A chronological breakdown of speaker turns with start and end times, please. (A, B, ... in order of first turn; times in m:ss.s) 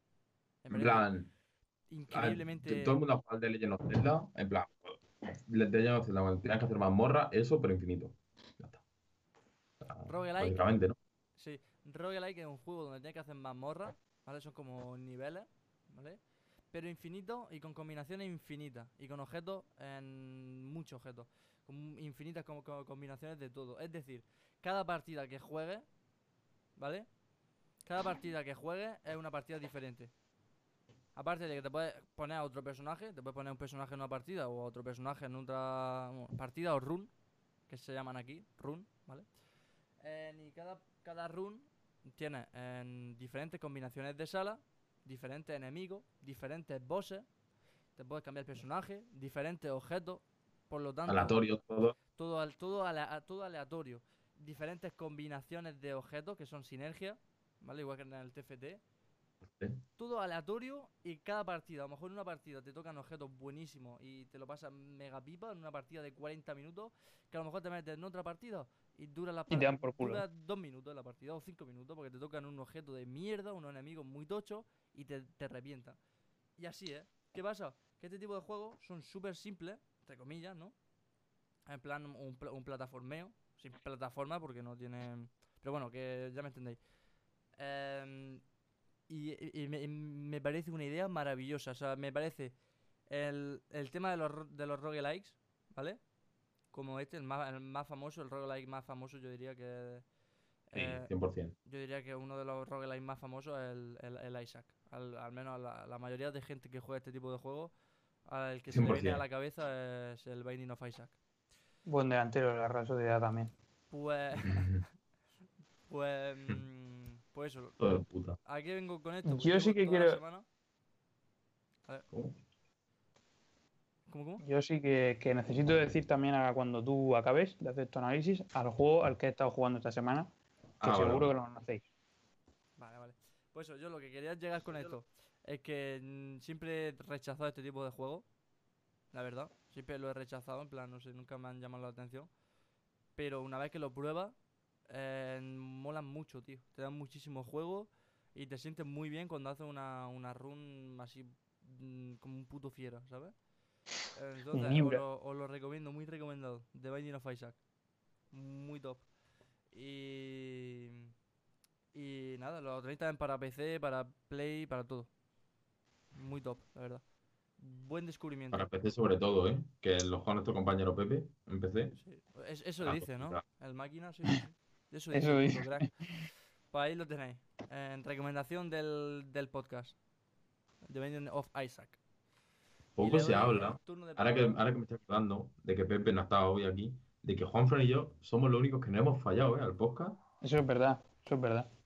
0:00.6-0:01.1 A
0:00.7-0:01.3 B
0:01.9-0:03.0 A
0:02.1-0:08.8 B
0:09.8-0:11.0 B
0:10.0-0:10.6 A
0:11.4-0:16.2 A
0:16.7-0:25.8 A
0:26.8-0:27.1 A
0:27.8-0:30.1 A
0:31.1-0:37.1 A
0:37.7-0:39.3 A
0:40.0-0:47.3 A
0:48.0-0:51.4 A
0:51.1-0:52.0 B
0:52.1-0:58.8 A
0:59.5-0:59.8 B
1:00.0-1:16.0 A
1:09.5-1:10.2 C
1:16.6-1:20.7 A
1:21.7-1:26.8 A
1:27.6-1:28.4 A
1:29.1-1:32.5 A
1:33.1-1:36.0 A
1:36.7-1:40.0 A
1:40.7-1:41.1 A
1:40.7-1:41.5 B
1:41.6-1:47.7 A
1:48.2-1:51.2 A
1:48.7-1:49.2 B
1:51.8-1:53.5 C
1:53.9-1:54.7 A
1:54.4-1:54.8 B
1:55.9-1:57.8 A
1:57.8-1:58.4 B
1:58.4-2:00.4 A
1:59.2-2:00.2 C
2:04.1-2:04.4 A
2:04.4-2:10.3 C
2:10.8-2:11.3 B
2:10.8-2:11.8 C
2:12.8-2:18.2 A
2:19.1-2:22.3 A
2:23.2-2:24.4 A
2:24.9-2:33.3 A
2:34.1-2:37.6 A
2:34.5-2:35.0 C
2:38.3-2:39.1 A
2:39.7-2:41.1 A
2:41.9-2:45.1 A
2:46.1-2:47.0 A
2:47.6-2:48.7 A
2:48.5-2:52.0 B
2:52.0-2:55.9 A
2:52.8-2:53.4 B
2:55.1-2:55.9 C
2:56.7-3:00.0 A
3:00.9-3:02.0 A
3:03.0-3:10.2 B
3:03.0-3:04.6 A
3:10.4-3:11.7 C